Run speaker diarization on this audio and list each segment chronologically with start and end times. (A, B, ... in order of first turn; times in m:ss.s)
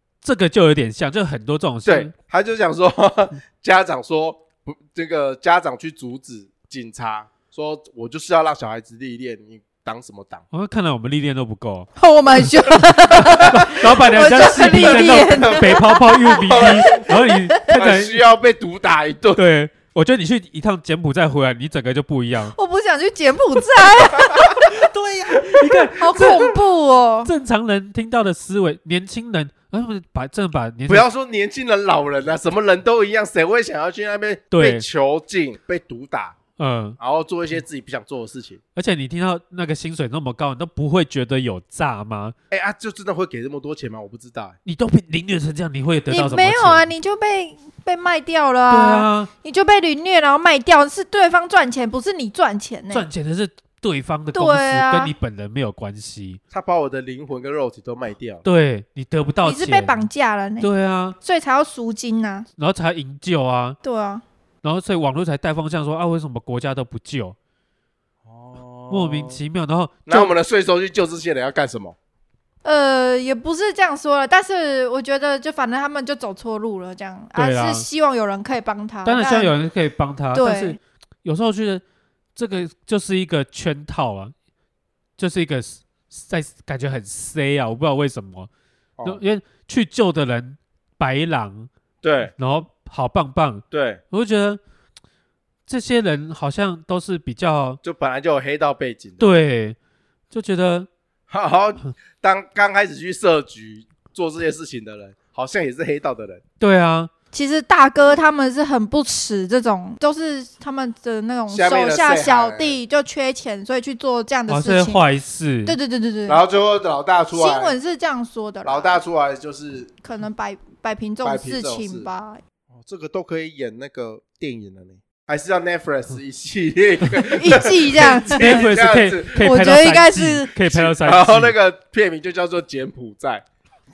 0:00.2-0:02.1 A
0:01.8-0:10.4 B
0:10.5-0:18.2 A
0:12.0-0:17.7 C
0:14.6-0:15.8 B
0:16.4-0:17.0 B
0:17.7-0:19.4 B
0:19.4-0:22.6 A
0:22.6-0:24.7 C
0:25.0-0:25.8 B
0:25.3-0:26.6 A
0:26.0-0:27.3 C
0:27.2-0:31.1 A
0:30.9-0:36.4 B
0:34.5-0:34.8 A
0:36.6-0:37.0 A
0:37.0-0:38.6 B
0:38.8-0:42.4 A
0:42.5-0:44.6 B
0:44.6-0:46.9 A
0:46.1-0:53.0 C
0:48.7-0:49.3 A
0:52.9-0:56.4 A
0:54.3-0:55.1 C
0:56.5-0:58.4 B
0:58.4-1:00.0 A
0:59.4-1:00.7 C
1:00.6-1:01.2 A
1:01.2-1:02.5 C
1:02.6-1:03.8 A
1:03.8-1:04.2 C
1:04.6-1:07.4 A
1:08.2-1:09.4 B
1:08.9-1:10.3 A
1:10.1-1:12.0 B
1:12.6-1:19.5 C
1:17.4-1:17.9 A
1:19.0-1:21.8 A
1:20.3-1:20.8 C
1:22.4-1:24.3 A
1:25.2-1:28.5 A
1:29.0-1:31.7 A
1:32.0-1:32.3 B
1:32.4-1:34.6 A
1:33.7-1:34.0 B
1:35.7-1:37.8 A
1:37.8-1:39.3 B
1:39.2-1:39.8 A
1:40.3-1:40.9 A
1:41.3-1:46.4 B
1:46.6-1:47.1 A
1:47.3-1:55.0 C
1:51.5-1:52.8 B
1:54.5-1:55.8 A
1:55.6-1:56.4 C
1:56.3-1:57.8 B
1:57.3-1:58.9 C
1:58.6-1:59.9 B
2:00.0-2:02.4 C
2:01.2-2:02.1 B
2:02.7-2:09.4 B
2:07.2-2:08.6 C
2:08.3-2:11.5 A
2:09.4-2:10.5 C
2:10.7-2:13.4 B